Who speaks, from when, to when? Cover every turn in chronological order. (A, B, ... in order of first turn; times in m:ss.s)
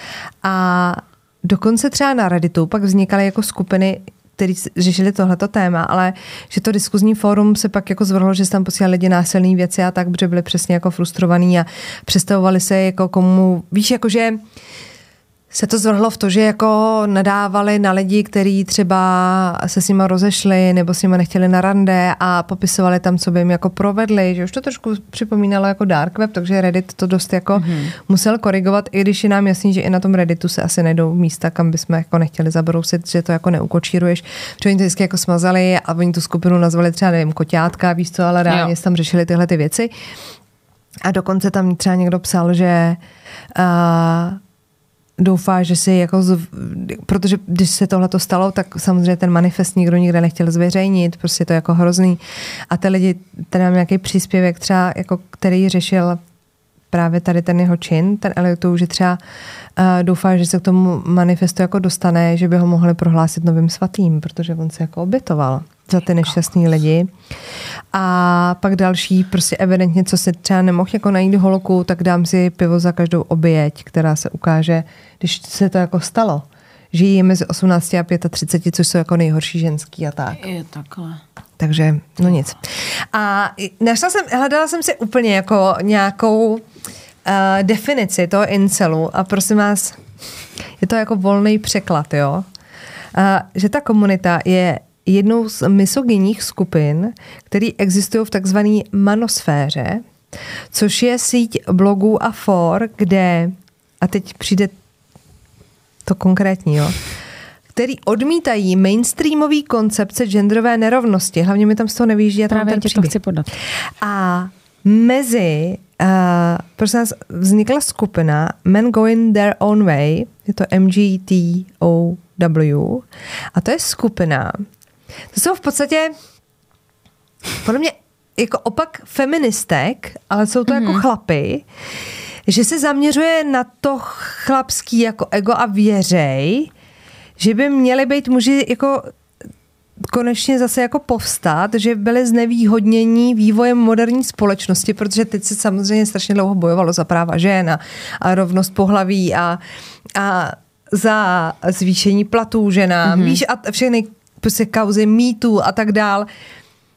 0:00.4-0:14.4 A
0:15.5-0:39.9 A
0:27.6-0:27.9 B
0:38.5-0:38.7 B
0:41.0-0:43.0 A
0:43.6-0:44.4 A
0:45.2-0:56.2 A
0:56.9-0:59.2 A
0:59.8-1:07.1 A
1:07.9-1:20.4 A
1:20.4-1:21.2 B
1:21.6-1:26.6 A
1:27.2-1:30.0 A
1:30.8-1:32.5 A
1:33.1-1:40.0 A
1:40.7-1:44.7 A
1:46.0-1:47.0 A
1:47.7-1:53.2 A
1:52.5-1:53.5 B
1:54.0-2:04.6 A
2:05.3-2:06.1 A
2:07.6-2:11.7 A
2:10.7-2:11.0 B
2:12.5-2:16.7 A
2:17.4-2:19.1 A
2:20.0-2:29.6 A
2:30.2-2:36.3 A
2:33.0-2:33.4 B